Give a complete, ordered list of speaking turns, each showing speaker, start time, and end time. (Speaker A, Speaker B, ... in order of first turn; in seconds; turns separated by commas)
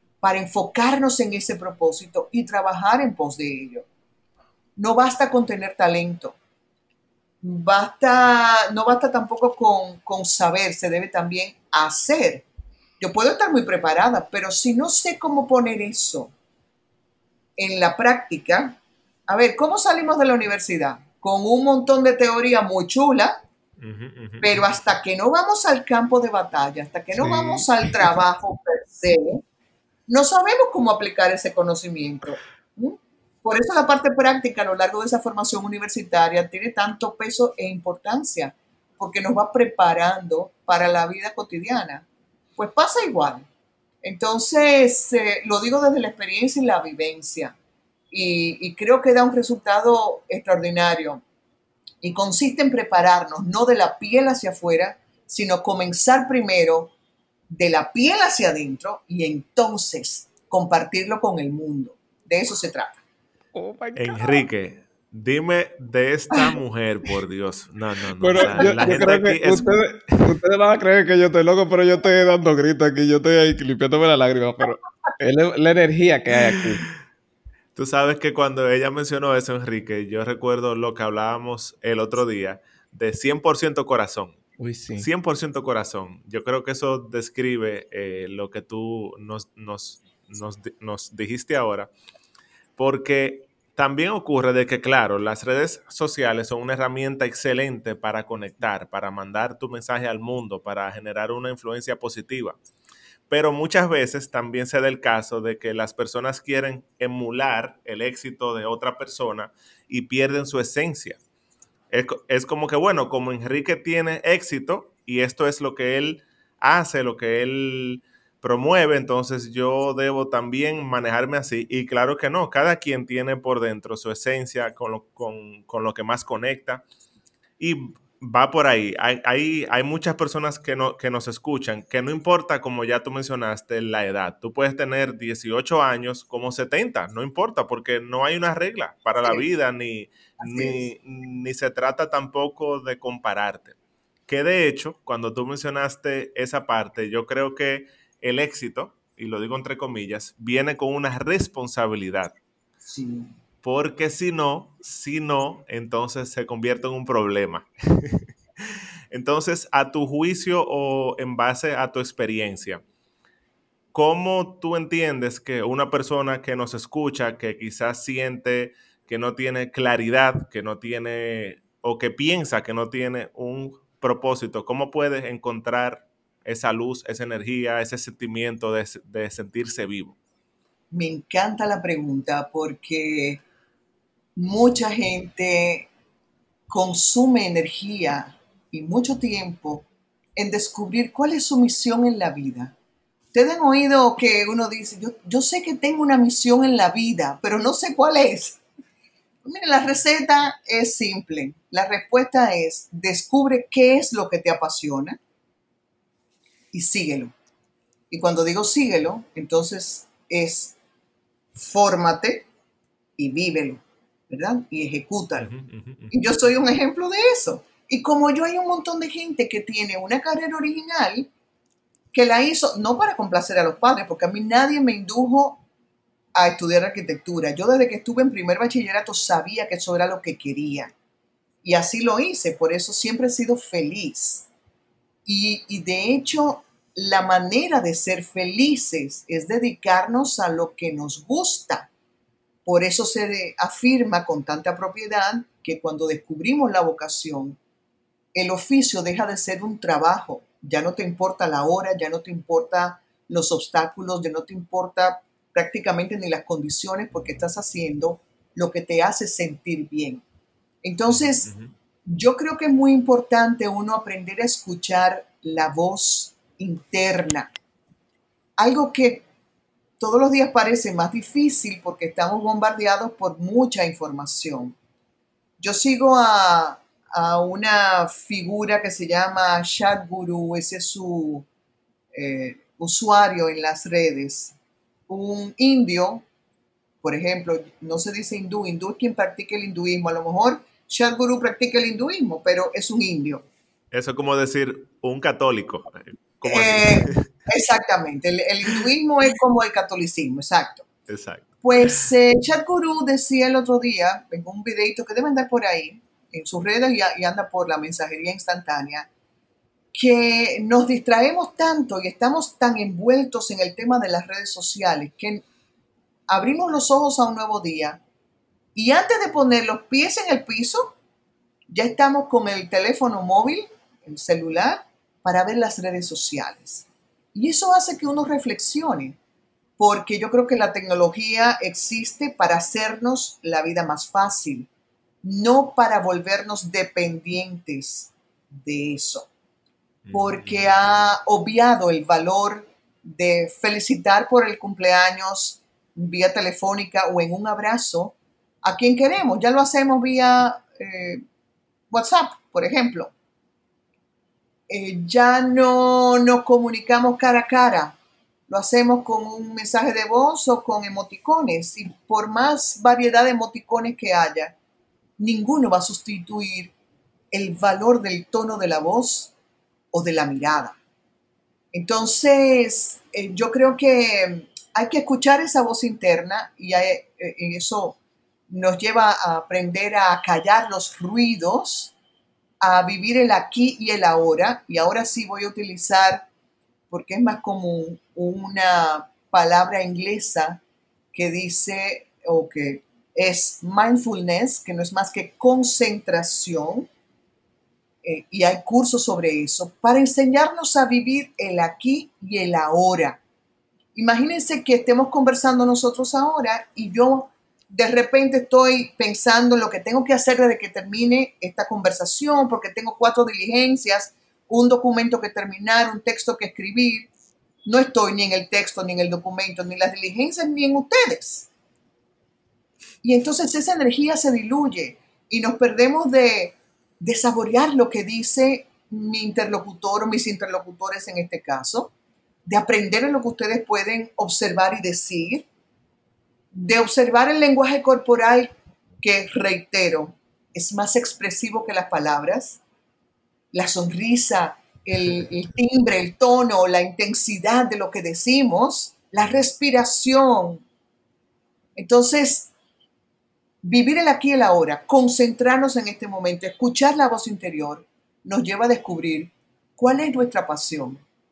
Speaker A: 0.2-3.9, Speaker A: 4.8-6.4, Speaker A: 7.4-12.4, Speaker A: 13.0-16.3, Speaker A: 17.6-23.4, Speaker B: 23.8-25.0, Speaker A: 24.4-29.4, Speaker C: 27.1-28.1, Speaker A: 30.1-43.5, Speaker A: 44.0-47.5, Speaker A: 48.1-51.2, Speaker A: 52.0-56.9, Speaker A: 57.5-63.0, Speaker C: 63.5-64.4, Speaker B: 64.0-70.3, Speaker C: 68.2-76.8, Speaker A: 68.4-68.7, Speaker B: 77.7-84.4, Speaker C: 84.6-85.1, Speaker B: 85.0-91.9, Speaker B: 92.8-102.6, Speaker B: 103.3-111.2, Speaker B: 111.9-126.8, Speaker B: 127.6-143.7, Speaker A: 140.4-140.8, Speaker B: 144.3-152.3, Speaker A: 152.8-153.3, Speaker B: 153.6-158.3, Speaker B: 159.1-162.8, Speaker B: 163.9-180.2, Speaker A: 180.9-183.4, Speaker A: 184.3-185.9, Speaker A: 186.7-192.7, Speaker A: 193.3-198.6, Speaker A: 199.4-205.2, Speaker A: 206.7-207.3, Speaker A: 208.1-210.8, Speaker A: 211.5-212.5, Speaker A: 213.2-215.5, Speaker B: 215.4-216.2, Speaker A: 216.1-221.3, Speaker A: 222.1-225.6, Speaker A: 226.3-230.9, Speaker A: 231.6-234.5, Speaker A: 235.2-241.9, Speaker A: 242.6-247.6, Speaker A: 248.3-260.2, Speaker A: 260.8-261.5, Speaker B: 261.1-261.7, Speaker A: 262.0-267.5, Speaker A: 268.6-269.2, Speaker A: 270.0-274.8, Speaker A: 275.6-281.5, Speaker A: 282.1-284.6, Speaker A: 285.1-286.2, Speaker A: 287.0-293.5, Speaker B: 293.9-297.3, Speaker A: 296.4-300.9, Speaker B: 301.1-302.1, Speaker A: 301.6-309.1, Speaker A: 309.9-315.4, Speaker A: 316.3-318.0, Speaker A: 318.7-320.9, Speaker A: 321.7-329.2, Speaker A: 329.8-334.7, Speaker A: 335.2-339.3, Speaker B: 340.0-340.9, Speaker A: 340.1-351.2, Speaker A: 351.9-353.1, Speaker A: 354.7-358.0, Speaker A: 358.5-364.6, Speaker A: 365.2-366.7, Speaker A: 367.3-369.3, Speaker A: 369.9-370.8, Speaker A: 371.7-378.0, Speaker A: 378.5-381.9, Speaker A: 382.6-386.3, Speaker A: 386.9-390.6, Speaker A: 391.1-396.9, Speaker A: 398.0-403.2, Speaker A: 403.9-417.1, Speaker A: 417.6-421.5, Speaker A: 423.0-431.9, Speaker A: 432.4-435.5, Speaker A: 436.5-442.6, Speaker A: 443.5-450.6, Speaker A: 451.8-452.5, Speaker A: 453.6-461.0